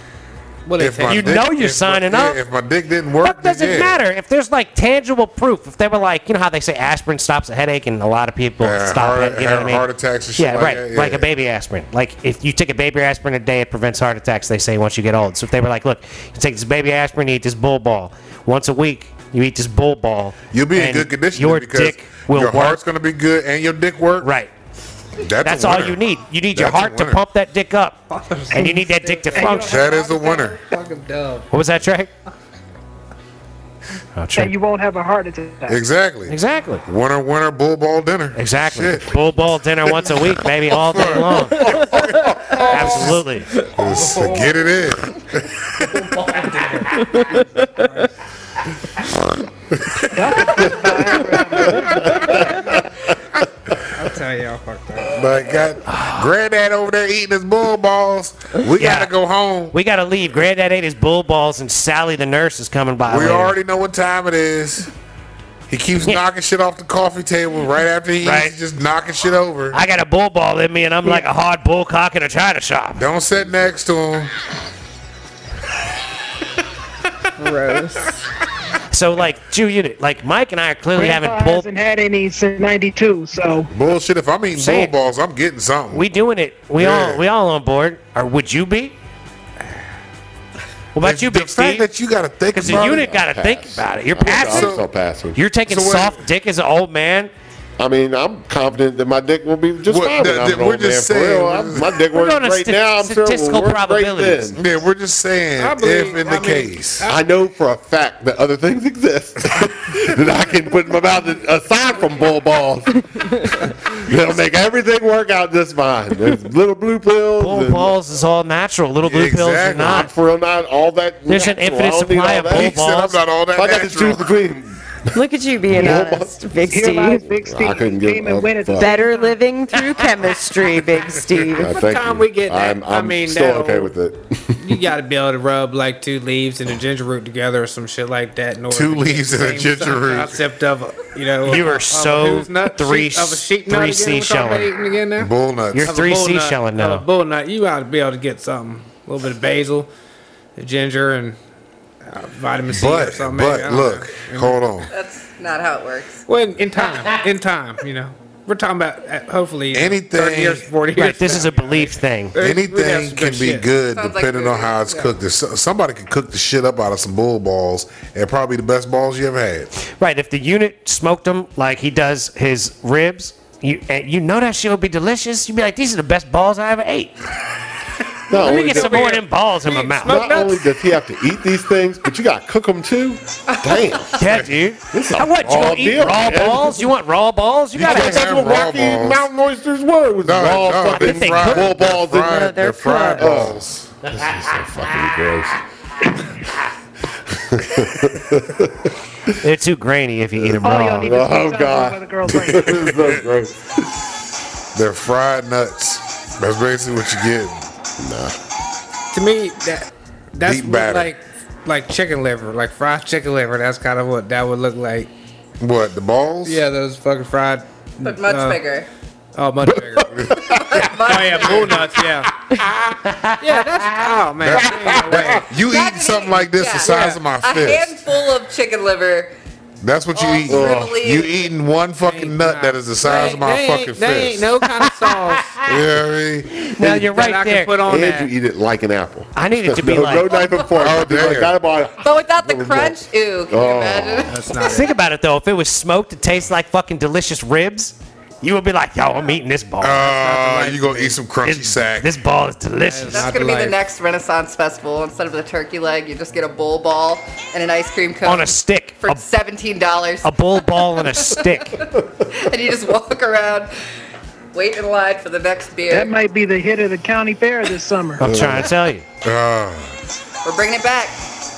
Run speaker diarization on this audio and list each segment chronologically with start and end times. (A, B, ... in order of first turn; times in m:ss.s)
0:00.6-0:01.4 A
0:00.8-0:04.0 B
0:01.0-0:02.4 C
0:03.2-0:22.8 C
0:08.6-0:11.3 B
0:20.5-0:24.3 B
0:24.2-0:24.5 C
0:25.2-0:26.0 B
0:25.4-0:28.0 C
0:26.5-0:27.2 B
0:28.1-0:31.5 A
0:28.5-0:29.9 C
0:28.5-0:28.8 D
0:29.4-0:30.4 D
0:29.4-0:30.6 B
0:31.5-0:32.1 C
0:34.2-0:34.5 C
0:34.4-0:35.8 D
0:35.7-0:39.2 B
0:36.3-0:36.8 C
0:38.4-0:42.0 C
0:40.0-0:43.1 B
0:42.0-0:42.6 E
0:42.6-0:43.6 C
0:43.6-0:46.1 B
0:43.9-0:44.5 A
0:46.0-0:48.1 A
0:47.0-0:47.9 F
0:49.8-0:50.8 B
0:50.1-0:52.3 D
0:52.2-0:52.6 B
0:53.9-0:55.2 A
0:55.1-0:59.7 B
0:55.9-0:56.2 C
0:58.8-0:59.1 C
0:59.7-1:03.5 C
1:03.0-1:04.9 B
1:05.7-1:09.8 B
1:08.2-1:08.5 C
1:09.7-1:13.1 C
1:13.0-1:14.3 B
1:17.4-1:18.1 F
1:18.9-1:21.6 C
1:20.9-1:23.7 D
1:23.7-1:26.0 B
1:24.5-1:24.9 C
1:25.9-1:29.0 C
1:26.8-1:27.2 B
1:30.9-1:31.9 C
1:31.0-1:33.2 B
1:32.5-1:34.8 C
1:32.6-1:35.4 E
1:34.2-1:34.8 B
1:35.3-1:37.3 C
1:35.7-1:36.2 B
1:37.8-1:44.6 E
1:39.9-1:42.0 B
1:42.1-1:44.5 C
1:44.5-1:47.0 B
1:45.6-1:47.2 A
1:47.0-1:58.0 E
1:57.4-2:00.1 C
1:59.0-2:00.1 B
1:59.8-2:02.8 E
2:01.3-2:03.2 C
2:02.5-2:04.4 B
2:03.5-2:06.5 E
2:05.1-2:07.3 F
2:06.7-2:09.4 D
2:07.4-2:09.0 E
2:08.8-2:11.8 F
2:11.5-2:14.8 E
2:11.6-2:13.9 A
2:14.6-2:25.3 A
2:18.7-2:20.4 B
2:21.4-2:24.7 C
2:25.2-2:25.9 B
2:25.7-2:27.0 C
2:25.8-2:29.9 A
2:30.6-2:31.4 A
2:32.0-2:34.6 A
2:32.7-2:34.9 B
2:34.9-2:36.2 G
2:36.3-2:43.7 A
2:39.7-2:40.6 B
2:40.9-2:42.4 C
2:42.4-2:49.7 B
2:43.9-2:45.1 G
2:49.8-2:57.1 C
2:58.3-2:59.0 E
2:58.3-3:00.7 A
2:58.3-3:00.3 C
3:00.0-3:04.2 E
3:03.5-3:04.2 G
3:04.2-3:08.6 C
3:04.2-3:04.5 B
3:04.9-3:06.9 E
3:07.8-3:09.3 B
3:07.8-3:12.5 E
3:10.2-3:13.9 B
3:10.8-3:11.7 C
3:12.2-3:13.5 F
3:13.1-3:15.6 E
3:14.0-3:15.2 C
3:17.3-3:18.9 E
3:19.4-3:21.1 C
3:20.4-3:23.9 E
3:20.6-3:22.9 D
3:22.6-3:23.2 B
3:24.7-3:27.6 B
3:28.0-3:28.4 E
3:29.1-3:35.1 A
3:30.4-3:31.1 B
3:35.6-3:36.6 B
3:36.4-3:38.6 A
3:38.0-3:38.9 G
3:39.3-3:40.1 A
3:39.6-3:40.9 E
3:40.1-3:41.8 B
3:40.5-3:41.8 G
3:41.0-3:42.3 A
3:42.5-3:43.0 B
3:43.0-3:44.1 C
3:43.4-3:45.5 A
3:44.4-3:48.1 B
3:45.2-3:49.4 G
3:46.8-3:47.2 A
3:49.8-3:54.5 B
3:50.1-3:51.5 G
3:50.5-3:50.9 E
3:52.0-3:55.6 A
3:54.8-3:55.4 C
3:55.6-3:56.5 B
3:56.5-3:57.7 C
3:56.8-3:58.3 A
3:57.8-4:04.3 E
3:59.3-4:00.4 C
4:00.3-4:00.7 G
4:00.8-4:01.5 B
4:02.0-4:04.9 G
4:04.3-4:04.9 A
4:04.6-4:10.2 C
4:09.8-4:12.1 B
4:10.0-4:11.2 A
4:11.4-4:13.3 C
4:12.9-4:13.8 A
4:13.1-4:23.7 G
4:18.2-4:19.2 C
4:20.2-4:21.8 C
4:24.5-4:26.2 G
4:25.9-4:28.2 D
4:28.2-4:29.0 C
4:28.2-4:28.7 E
4:28.4-4:28.6 B
4:29.2-4:30.0 B
4:30.4-4:31.2 G